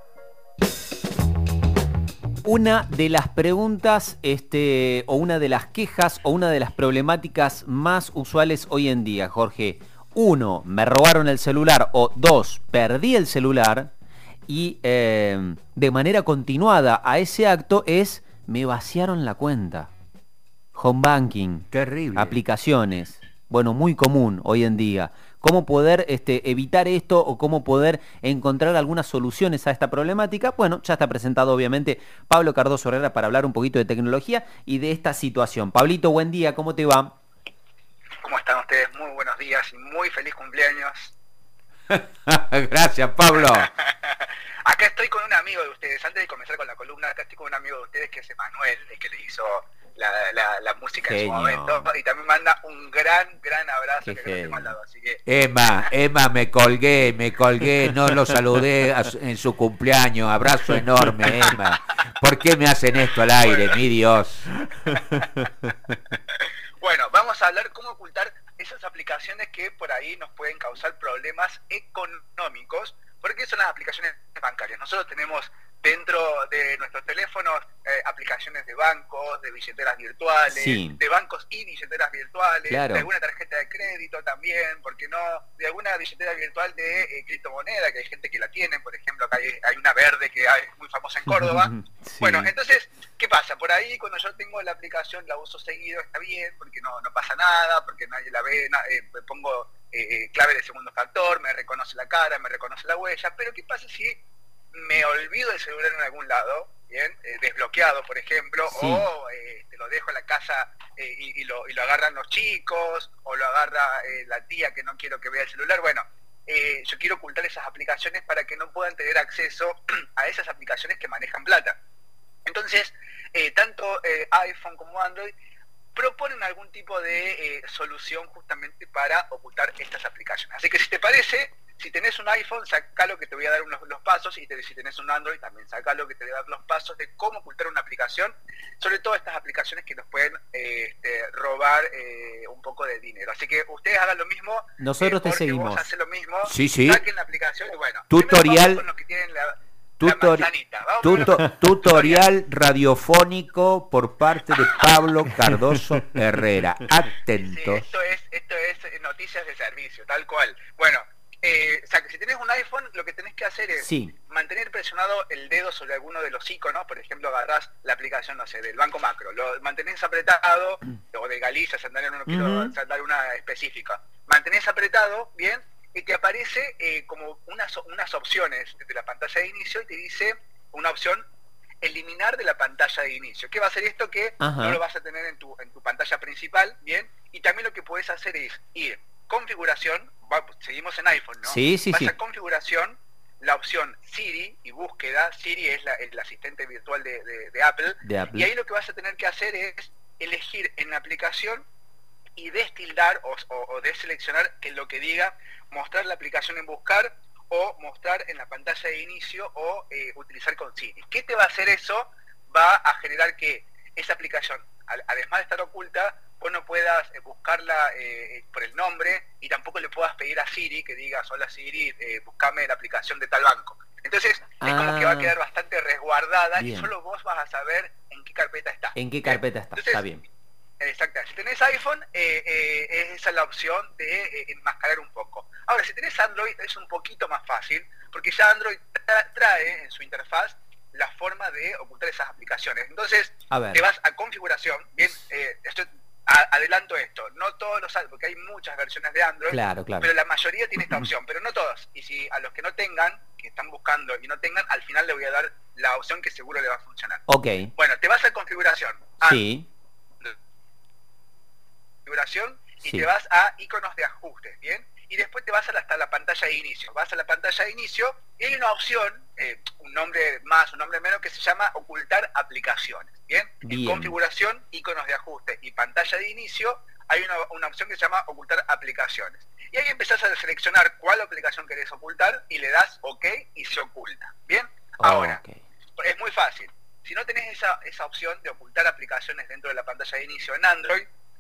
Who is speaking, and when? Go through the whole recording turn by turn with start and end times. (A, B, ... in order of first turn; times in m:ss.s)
0:02.4-0:13.9 A
0:14.5-0:19.9 A
0:20.8-0:37.1 A
0:21.7-0:22.4 B
0:38.2-0:41.2 C
0:41.9-0:43.7 B
0:43.3-0:55.2 C
0:51.0-0:51.9 A
0:54.0-0:54.7 A
0:55.3-1:04.5 B
1:03.4-1:03.8 C
1:04.9-1:05.3 C
1:06.1-1:44.2 C
1:20.5-1:21.0 A
1:22.7-1:23.1 A
1:31.3-1:32.5 A
1:44.7-2:01.8 C
1:48.7-1:49.1 A
2:02.4-2:05.3 C
2:06.0-2:32.3 C
2:24.8-2:25.8 A
2:26.4-2:27.0 B
2:28.1-2:28.8 B
2:30.0-2:30.5 B
2:31.0-2:37.9 B
2:37.3-3:01.2 C
2:43.8-2:44.1 A
2:52.3-2:52.7 A
3:01.8-3:21.7 C
3:04.4-3:04.8 A
3:11.4-3:12.1 A
3:18.0-3:18.5 A
3:22.4-3:50.1 C
3:44.6-3:45.4 A
3:46.6-3:46.9 A
3:49.0-3:50.2 A
3:50.8-4:17.2 C
4:03.5-4:03.8 A
4:09.5-4:10.1 A
4:17.3-4:17.7 A
4:17.8-4:19.4 C
4:19.2-4:19.7 A
4:22.0-4:45.4 C
4:33.6-4:34.2 A
4:45.0-4:45.6 A
4:46.0-4:51.1 C